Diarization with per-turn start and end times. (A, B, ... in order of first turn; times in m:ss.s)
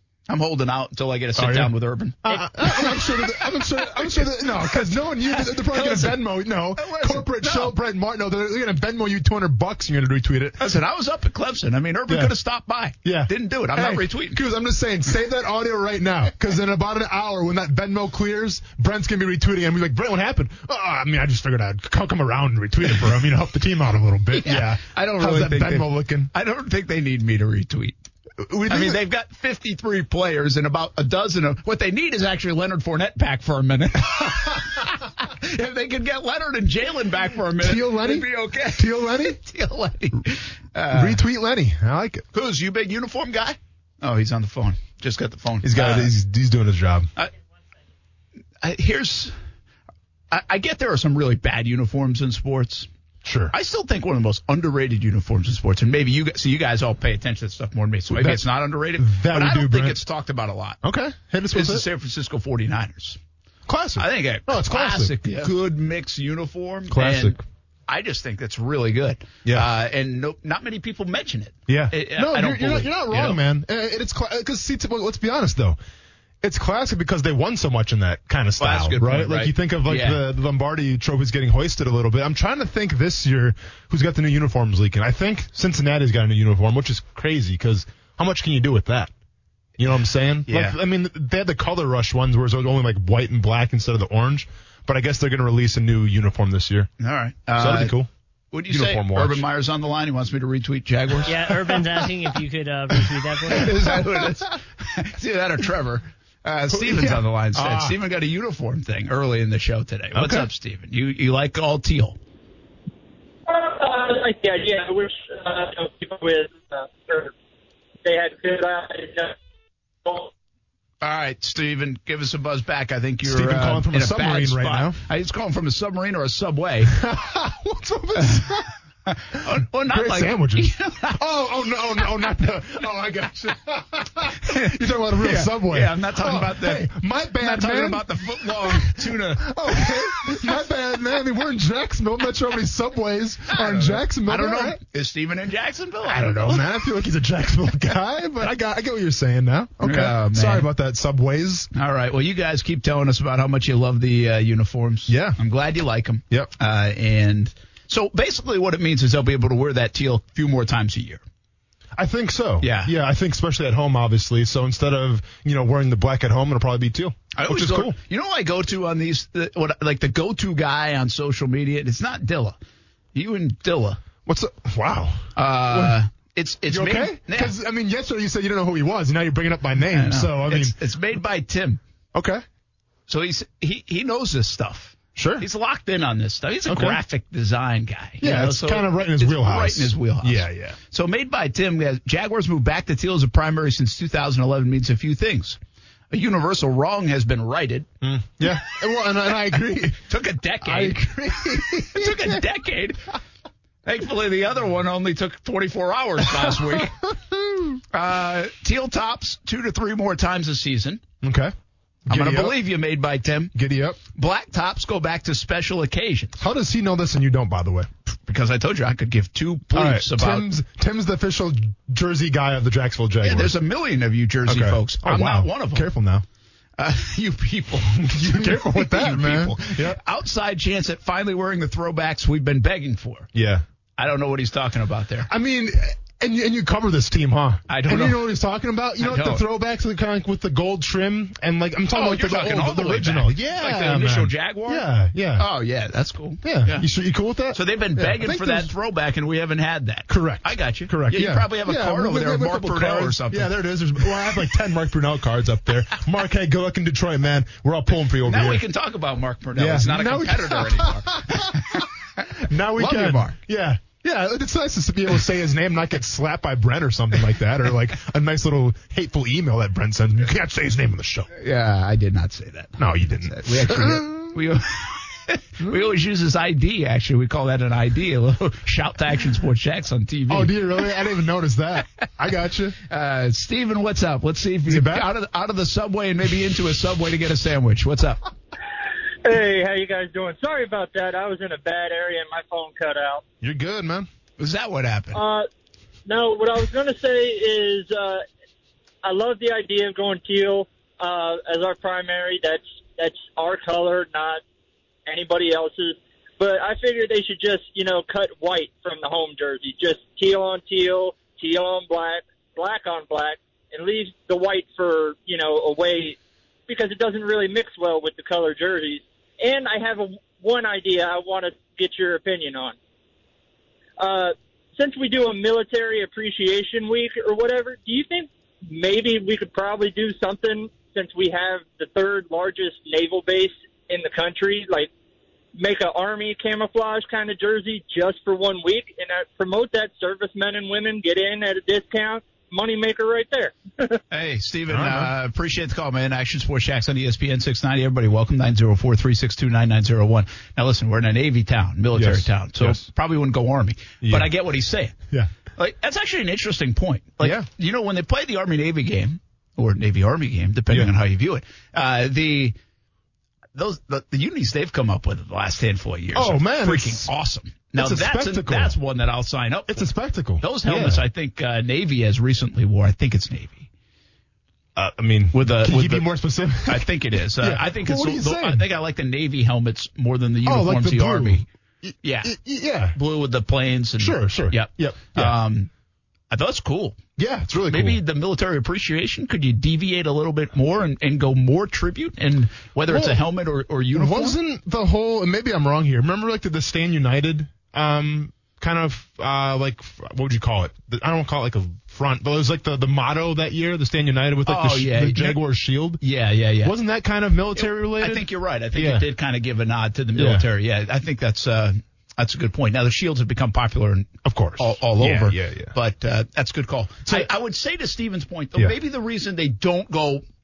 0:00.3-0:06.2 A
0:01.4-0:10.6 B
0:06.7-0:07.8 A
0:10.6-0:14.4 A
0:12.1-0:12.3 B
0:13.0-0:26.3 B
0:24.3-0:28.0 A
0:28.4-0:29.0 B
0:28.7-0:41.2 A
0:37.6-0:39.4 B
0:40.9-0:42.2 B
0:42.3-0:46.1 A
0:45.6-0:47.1 B
0:48.6-0:49.3 A
0:50.3-0:52.9 A
0:53.2-0:53.5 B
0:53.5-1:00.8 A
0:58.1-1:00.0 B
1:00.8-1:01.8 B
1:01.5-1:03.2 A
1:03.7-1:05.4 B
1:04.0-1:13.4 A
1:06.9-1:07.4 B
1:09.4-1:09.7 B
1:11.7-1:15.8 B
1:16.4-1:29.1 B
1:18.6-1:20.2 A
1:29.8-1:36.9 B
1:30.5-1:30.8 A
1:37.0-1:37.9 A
1:37.6-1:38.1 B
1:38.5-1:41.8 A
1:38.7-1:39.4 B
1:41.2-1:43.8 C
1:43.5-1:52.2 A
1:43.6-1:44.0 B
1:46.7-1:48.0 B
1:50.1-1:50.5 B
1:53.5-1:57.3 D
1:58.0-1:59.4 D
2:00.0-2:00.3 D
2:01.0-2:07.0 A
2:03.2-2:05.0 B
2:06.9-2:08.7 B
2:08.2-2:11.2 A
2:09.8-2:24.8 B
2:14.4-2:20.6 A
2:23.5-2:26.7 A
2:26.0-2:31.7 B
2:29.8-2:30.7 A
2:31.7-2:41.2 A
2:35.1-2:35.4 B
2:42.0-2:48.0 B
2:42.6-2:42.9 A
2:47.3-2:52.6 A
2:53.1-2:54.0 A
2:54.3-2:56.0 B
2:55.4-2:57.5 A
2:56.7-3:00.8 B
2:59.9-3:01.8 A
3:02.2-3:02.4 B
3:03.1-3:15.6 A
3:05.2-3:05.5 B
3:06.7-3:07.0 B
3:08.2-3:10.8 B
3:16.1-3:17.9 A
3:18.0-3:20.0 B
3:19.5-3:23.0 A
3:20.6-3:22.4 B
3:23.8-3:27.0 A
3:26.4-3:27.8 B
3:27.9-3:31.0 A
3:31.2-3:31.5 B
3:32.1-3:32.6 B
3:32.1-3:33.5 A
3:33.5-3:34.0 B
3:34.2-3:36.4 A
3:36.4-3:37.9 B
3:38.1-3:40.5 A
3:39.7-3:43.6 B
3:43.2-3:45.9 A
3:44.5-3:46.2 B
3:46.8-3:53.3 A
3:48.0-3:50.0 B
3:53.3-3:53.6 B
3:54.0-3:55.3 A
3:55.3-4:05.5 B
3:57.7-3:58.3 A
3:59.0-3:59.4 A
4:01.9-4:04.9 A
4:05.4-4:06.9 A
4:06.4-4:08.7 B
4:07.5-4:14.5 A
4:10.1-4:18.6 B
4:18.2-4:23.4 A
4:19.6-4:21.9 B
4:22.4-4:31.3 B
4:31.3-4:41.0 A
4:32.8-4:34.4 B
4:40.3-4:42.8 B
4:42.8-4:48.2 A
4:44.7-4:45.1 B
4:49.2-4:53.2 D
4:53.4-4:54.1 B
4:54.4-4:55.2 A
4:55.1-4:55.5 D
4:56.1-4:58.2 D
4:59.0-5:04.4 D
5:05.1-5:22.8 D
5:24.0-5:34.9 D
5:35.6-5:44.0 D
5:44.1-5:55.0 A
5:44.7-5:45.1 B
5:52.0-5:52.9 B
5:54.0-5:54.3 B
5:55.6-6:02.6 A
5:57.2-5:57.5 B
6:03.6-6:09.9 A
6:06.1-6:07.1 B
6:07.8-6:08.8 B
6:09.7-6:11.0 B
6:10.4-6:13.7 A
6:14.8-6:18.7 B
6:15.3-6:16.1 A
6:16.7-6:21.4 A
6:20.4-6:23.0 B
6:22.0-6:22.4 A
6:23.0-6:25.7 A
6:24.0-6:25.4 B
6:26.3-6:27.0 A
6:27.2-6:28.0 B
6:27.7-6:34.4 A
6:32.9-6:33.2 B
6:33.9-6:46.0 B
6:44.5-6:45.4 A
6:46.0-6:46.7 A
6:46.6-6:49.1 B
6:47.6-7:00.2 A
6:50.2-6:50.5 B
6:54.2-6:55.7 B